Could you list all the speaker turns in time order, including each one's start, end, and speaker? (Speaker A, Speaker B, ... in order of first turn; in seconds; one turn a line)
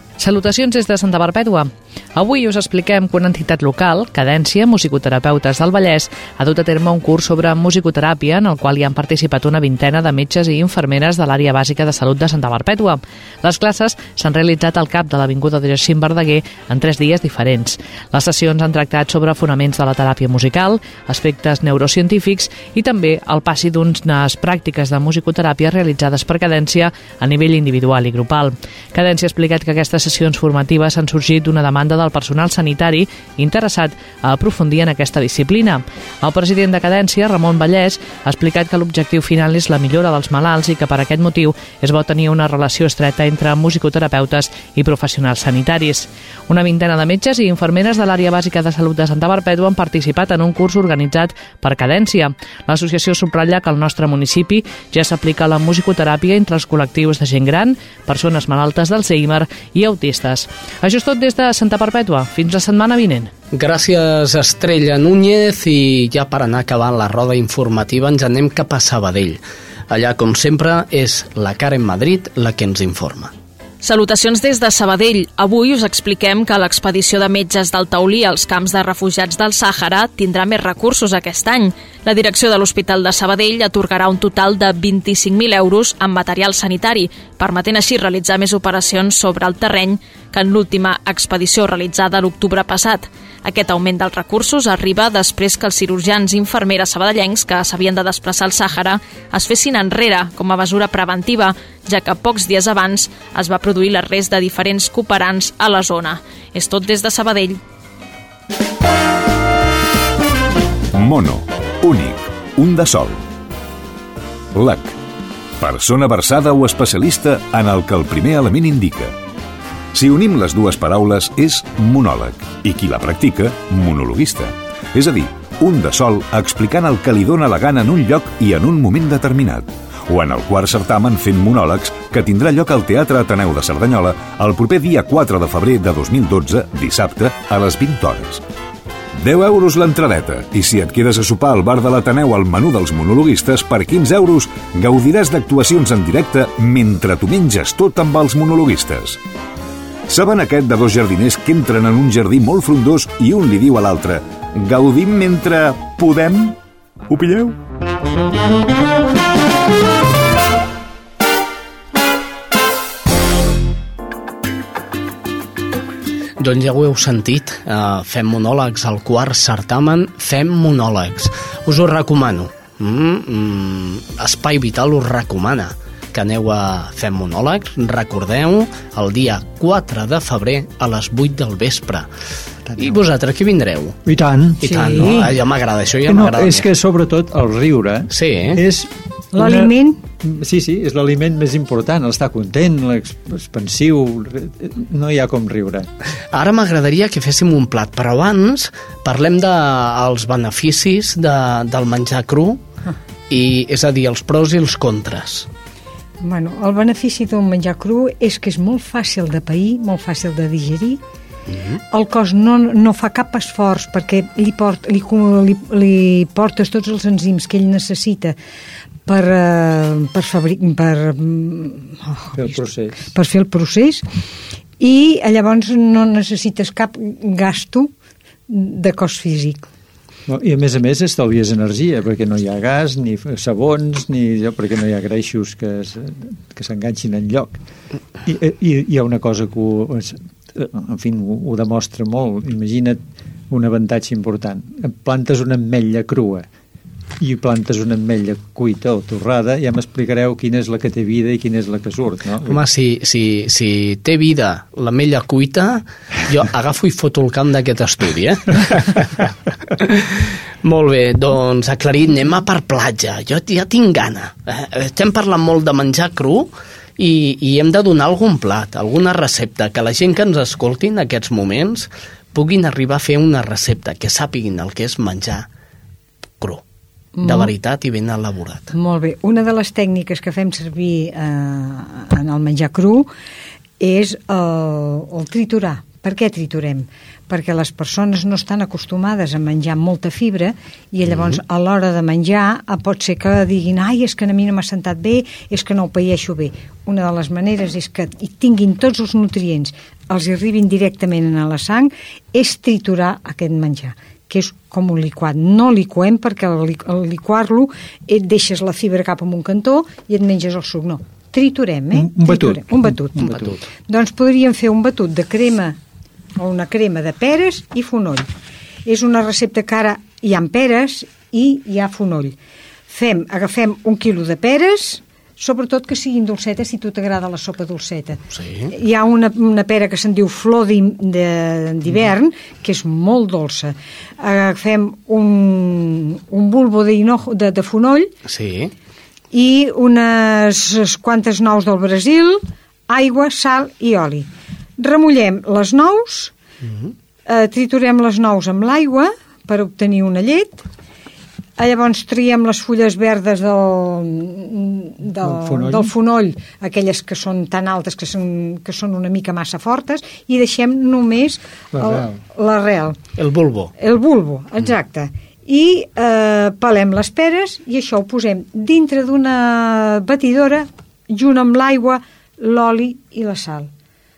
Speaker A: 0.2-63.3
Speaker B: 63.5-73.3
Speaker C: 73.8-107.6
Speaker D: 110.9-113.2
Speaker D: 114.5-115.0
Speaker D: 115.6-119.2
Speaker D: 119.9-138.4
Speaker D: 139.2-149.2
Speaker D: 150.1-156.6
Speaker D: 157.1-157.6
Speaker B: 166.4-182.1
Speaker E: 182.7-183.0
Speaker B: 182.8-184.0
Speaker E: 184.0-185.3
Speaker B: 184.6-186.7
Speaker F: 184.7-185.3
Speaker E: 186.0-195.9
Speaker B: 188.1-188.6
Speaker F: 189.3-190.0
Speaker B: 196.3-202.6
Speaker B: 203.3-205.5
Speaker F: 206.2-211.0
Speaker B: 211.5-211.8
Speaker F: 211.9-218.3
Speaker F: 219.1-224.0
Speaker E: 222.3-223.1
Speaker F: 224.8-227.9
Speaker F: 228.5-229.7
Speaker E: 230.3-237.6
Speaker E: 238.2-246.5
Speaker E: 247.2-252.6
Speaker B: 252.4-259.2
Speaker B: 259.8-275.5
Speaker F: 277.1-277.5
Speaker B: 277.2-278.7
Speaker F: 278.7-283.1
Speaker F: 283.8-315.8
Speaker E: 311.9-313.6
Speaker F: 316.4-318.3
Speaker F: 318.9-322.4
Speaker F: 322.9-338.1
Speaker B: 328.3-328.7
Speaker B: 338.2-338.7
Speaker F: 339.3-346.3
Speaker F: 347.2-350.6
Speaker F: 351.6-363.0
Speaker E: 355.2-355.9
Speaker E: 361.7-362.2
Speaker B: 363.2-363.7
Speaker F: 363.8-373.7